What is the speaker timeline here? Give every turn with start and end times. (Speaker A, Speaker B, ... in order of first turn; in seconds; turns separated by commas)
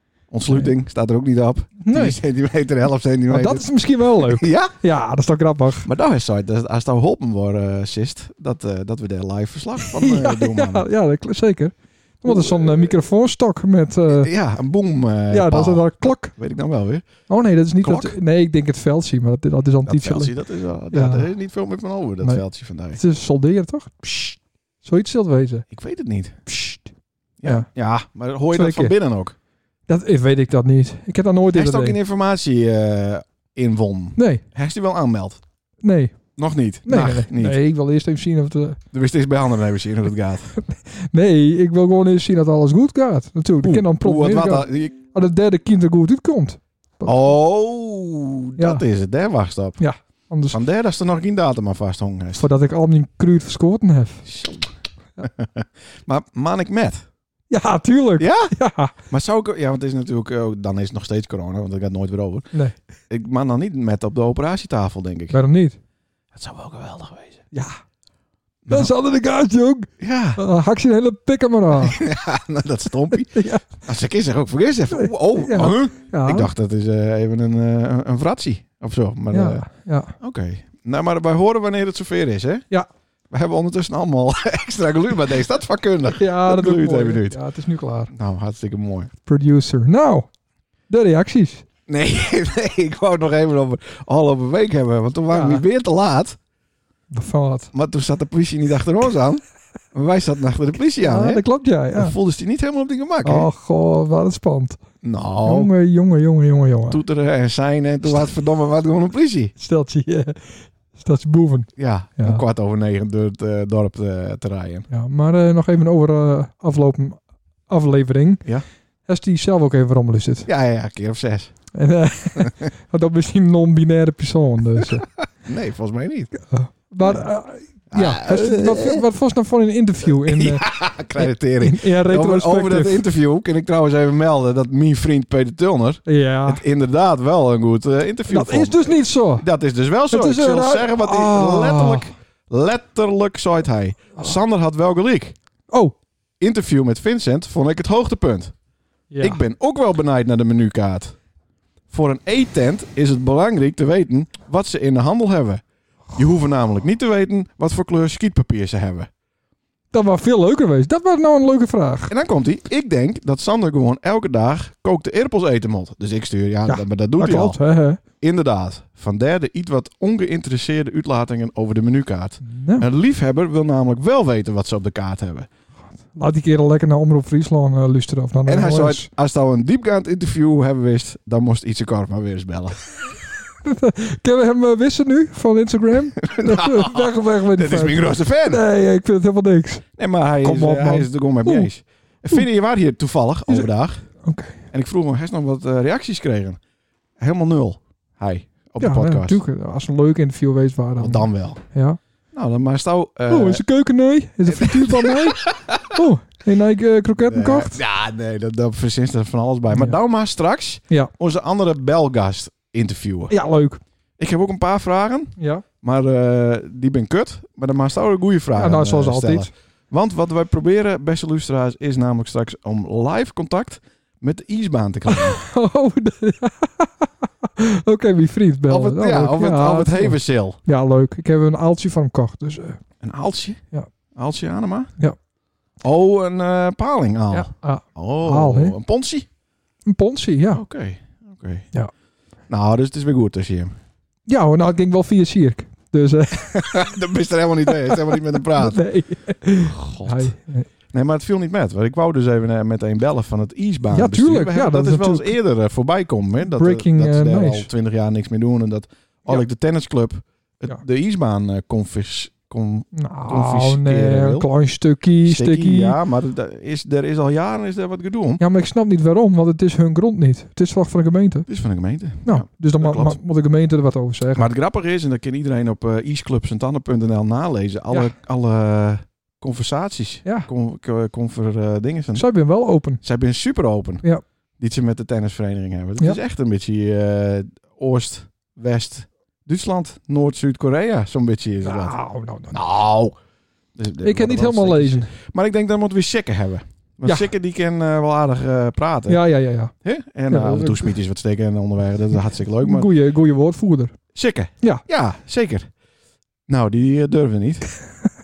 Speaker A: 0.3-3.7, Speaker B: 1.8-2.2, Speaker B: 3.3-5.9, Speaker A: 4.2-4.8, Speaker A: 5.8-10.9, Speaker B: 9.8-14.3, Speaker A: 12.3-12.9, Speaker A: 14.1-17.1, Speaker B: 15.3-16.3, Speaker B: 17.3-20.3, Speaker A: 17.8-18.2, Speaker A: 19.9-23.0, Speaker B: 20.9-21.3, Speaker B: 22.2-24.1, Speaker B: 24.8-25.7, Speaker A: 25.7-26.4, Speaker B: 26.5-26.8, Speaker A: 27.4-29.3, Speaker B: 28.5-28.9, Speaker B: 29.9-32.0, Speaker A: 31.5-35.4, Speaker B: 34.2-34.4, Speaker B: 35.8-36.2, Speaker A: 36.4-37.6, Speaker B: 36.9-38.8, Speaker A: 38.9-40.6, Speaker B: 40.6-47.2, Speaker A: 43.6-45.0, Speaker A: 47.0-49.8, Speaker B: 48.6-48.8, Speaker B: 49.8-50.6, Speaker A: 50.5-52.5, Speaker B: 52.4-54.2, Speaker A: 54.3-57.0, Speaker B: 57.5-58.9, Speaker A: 58.2-58.5, Speaker A: 59.1-62.5, Speaker A: 63.1-65.4, Speaker B: 65.3-65.8, Speaker A: 66.3-67.4, Speaker B: 67.5-67.8, Speaker A: 68.7-68.9, Speaker B: 68.7-72.0, Speaker A: 70.0-70.4, Speaker A: 71.8-79.7, Speaker B: 73.3-73.7, Speaker B: 74.9-76.5, Speaker B: 79.3-80.1, Speaker A: 80.2-82.7, Speaker A: 83.3-87.4, Speaker B: 86.2-88.1, Speaker A: 88.1-89.1, Speaker B: 89.3-90.3, Speaker B: 90.9-91.6, Speaker A: 91.9-96.4, Speaker B: 95.3-95.6, Speaker B: 97.1-97.7, Speaker A: 97.7-99.4, Speaker A: 99.9-101.4, Speaker B: 101.0-102.2, Speaker A: 102.0-103.5, Speaker B: 103.2-104.8, Speaker A: 105.0-105.7, Speaker B: 105.5-107.0, Speaker A: 106.9-109.5, Speaker B: 109.6-112.4, Speaker A: 111.8-114.9, Speaker B: 114.9-118.5, Speaker B: 119.1-120.5, Speaker A: 120.5-121.5, Speaker B: 121.7-125.1, Speaker A: 122.4-122.6, Speaker A: 125.4-126.3, Speaker B: 126.5-130.6, Speaker A: 127.9-129.0, Speaker A: 130.2-145.3, Speaker B: 131.2-133.0, Speaker B: 136.1-136.6, Speaker B: 138.3-139.5, Speaker B: 140.1-142.1, Speaker B: 145.7-146.0, Speaker A: 146.4-148.5, Speaker B: 149.1-149.4, Speaker A: 149.2-151.2, Speaker A: 151.9-155.6, Speaker A: 156.2-159.1, Speaker B: 159.9-162.1, Speaker A: 162.1-167.6, Speaker B: 166.7-168.0, Speaker A: 168.2-175.5, Speaker B: 172.4-172.9, Speaker B: 176.1-179.1, Speaker A: 178.5-182.8, Speaker B: 183.6-189.8, Speaker A: 186.2-188.6, Speaker A: 190.0-194.1, Speaker B: 190.4-191.7, Speaker B: 194.2-194.6, Speaker A: 194.7-196.6, Speaker A: 197.2-199.4, Speaker B: 198.8-202.0, Speaker A: 201.0-201.6, Speaker A: 202.3-203.6, Speaker B: 203.3-207.8, Speaker A: 204.5-205.9, Speaker A: 207.3-213.3, Speaker B: 209.7-210.0, Speaker B: 213.3-213.8, Speaker A: 214.2-225.4, Speaker B: 215.4-215.7, Speaker B: 218.5-219.5, Speaker B: 225.1-232.8, Speaker A: 228.7-230.6, Speaker A: 233.0-233.6, Speaker A: 234.2-234.9, Speaker A: 235.8-239.3, Speaker B: 237.3-238.8, Speaker B: 239.8-240.6, Speaker A: 240.5-241.7, Speaker A: 242.5-243.8, Speaker B: 244.3-246.9, Speaker A: 246.4-248.8, Speaker B: 247.7-250.7, Speaker A: 249.7-250.3, Speaker A: 250.9-264.5, Speaker B: 253.9-255.4, Speaker B: 256.4-257.7, Speaker B: 262.9-266.0, Speaker A: 265.2-268.4, Speaker B: 268.4-271.5, Speaker A: 271.5-273.2, Speaker B: 272.2-274.5, Speaker A: 274.4-282.3, Speaker B: 282.1-283.0, Speaker A: 283.0-284.0, Speaker A: 284.6-292.0, Speaker B: 291.6-292.5, Speaker A: 292.5-293.1, Speaker A: 293.8-299.2, Speaker B: 294.0-295.1, Speaker B: 299.1-299.7, Speaker A: 299.8-302.9, Speaker B: 300.3-300.9, Speaker B: 302.6-303.9, Speaker A: 304.1-305.7, Speaker A: 306.5-307.7